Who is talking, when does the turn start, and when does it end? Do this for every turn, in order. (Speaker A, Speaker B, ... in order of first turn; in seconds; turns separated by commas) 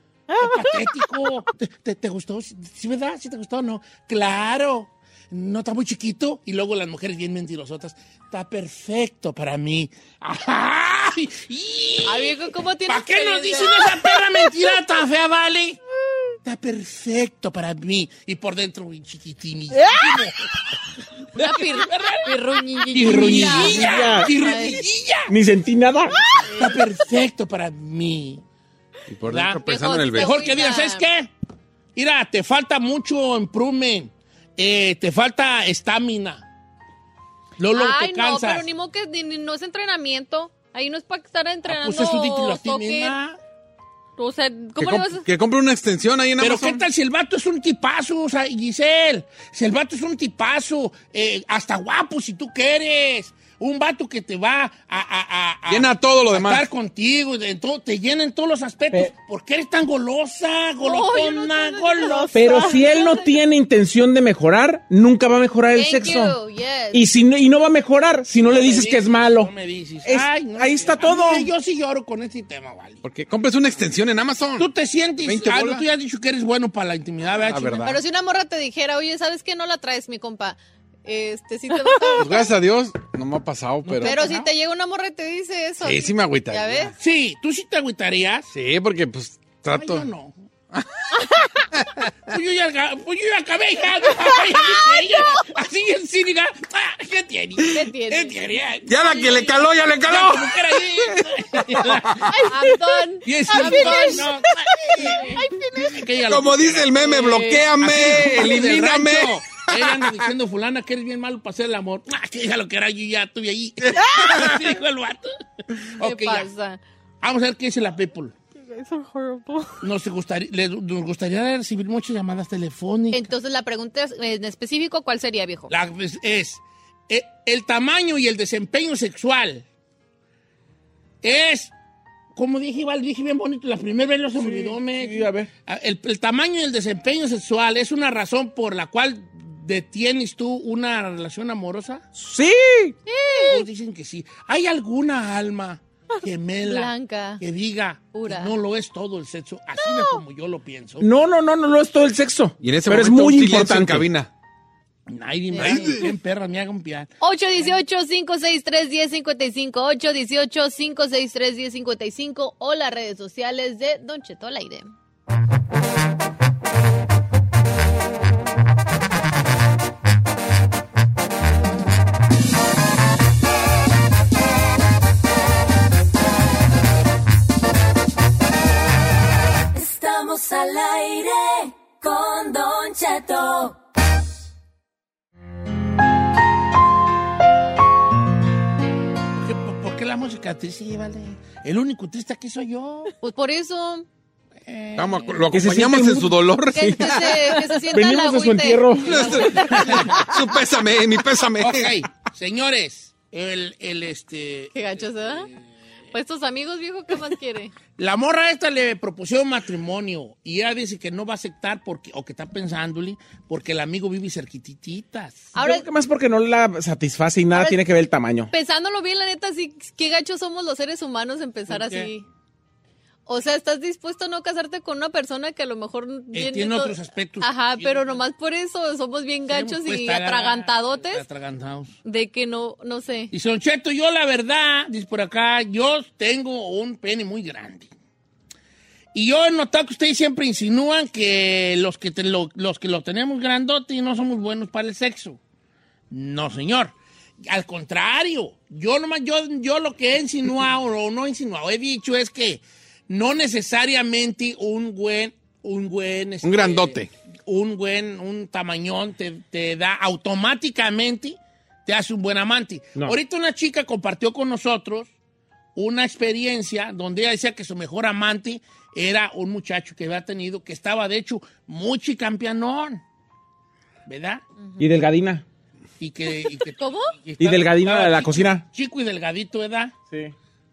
Speaker A: 0.3-1.1, Speaker B: 0.4-15.8, Speaker C: 12.1-14.1, Speaker B: 16.4-20.5, Speaker A: 19.7-20.2, Speaker B: 21.3-22.4, Speaker C: 21.4-24.8, Speaker B: 22.9-25.3, Speaker D: 23.0-24.3, Speaker D: 25.3-26.2, Speaker B: 26.5-28.4, Speaker E: 29.1-30.3, Speaker B: 29.3-31.3, Speaker C: 29.6-31.1, Speaker B: 32.0-36.5, Speaker B: 37.6-38.7, Speaker C: 37.7-43.1, Speaker B: 41.6-43.4, Speaker C: 44.2-45.3, Speaker E: 44.8-46.8, Speaker B: 46.4-62.3, Speaker E: 55.7-56.7, Speaker C: 60.8-63.3, Speaker A: 62.0-63.0, Speaker D: 62.3-66.3, Speaker C: 65.7-67.0, Speaker D: 66.9-69.5, Speaker B: 68.4-73.0, Speaker D: 70.0-71.5, Speaker E: 73.0-74.7, Speaker B: 74.6-77.9, Speaker E: 75.2-75.8, Speaker E: 77.5-78.0, Speaker C: 77.8-82.5, Speaker A: 81.7-82.3, Speaker E: 82.2-84.2, Speaker B: 83.9-84.5, Speaker C: 84.0-86.9, Speaker E: 85.8-86.9, Speaker B: 87.0-88.5, Speaker E: 88.5-90.1, Speaker B: 89.7-90.3, Speaker E: 90.7-91.1, Speaker E: 91.7-92.0, Speaker B: 92.3-102.3, Speaker C: 97.7-98.4, Speaker E: 98.9-102.3, Speaker C: 102.3-104.4, Speaker B: 103.2-116.5, Speaker A: 103.5-106.0, Speaker C: 105.0-105.4, Speaker E: 106.3-110.3, Speaker C: 107.2-107.7, Speaker C: 116.0-116.8, Speaker B: 117.2-118.3, Speaker A: 118.5-119.8, Speaker B: 119.8-123.3, Speaker C: 123.1-125.7, Speaker B: 125.7-129.7, Speaker B: 131.2-131.7, Speaker B: 132.4-142.1, Speaker D: 134.4-135.5, Speaker D: 142.2-143.0, Speaker C: 143.1-143.6, Speaker B: 143.4-151.1, Speaker C: 146.7-147.4, Speaker C: 148.1-148.5, Speaker A: 149.8-150.2, Speaker D: 151.0-154.1, Speaker E: 152.6-154.3, Speaker B: 155.1-157.1, Speaker C: 155.6-155.9, Speaker E: 155.6-156.1, Speaker C: 157.2-164.9, Speaker F: 179.7-183.8, Speaker B: 189.3-193.1, Speaker C: 193.2-194.1, Speaker B: 194.7-195.4, Speaker E: 195.0-197.3, Speaker D: 195.5-199.5, Speaker C: 196.8-200.0, Speaker E: 199.1-202.0, Speaker B: 199.2-200.2, Speaker B: 201.6-205.6, Speaker C: 204.8-205.5, Speaker C: 206.1-207.7, Speaker B: 208.0-215.5, Speaker C: 215.5-215.9, Speaker D: 215.6-218.5, Speaker C: 217.5-217.8, Speaker C: 218.5-222.2, Speaker B: 221.7-222.1, Speaker C: 223.3-231.2, Speaker B: 226.3-228.2, Speaker B: 229.5-232.0, Speaker C: 232.1-233.3, Speaker B: 233.3-237.9, Speaker B: 239.1-245.4, Speaker B: 246.1-265.1, Speaker E: 256.4-257.1, Speaker B: 265.8-273.0, Speaker B: 274.1-274.4, Speaker D: 274.8-275.4, Speaker B: 276.0-280.0, Speaker C: 276.8-277.1, Speaker D: 277.4-278.6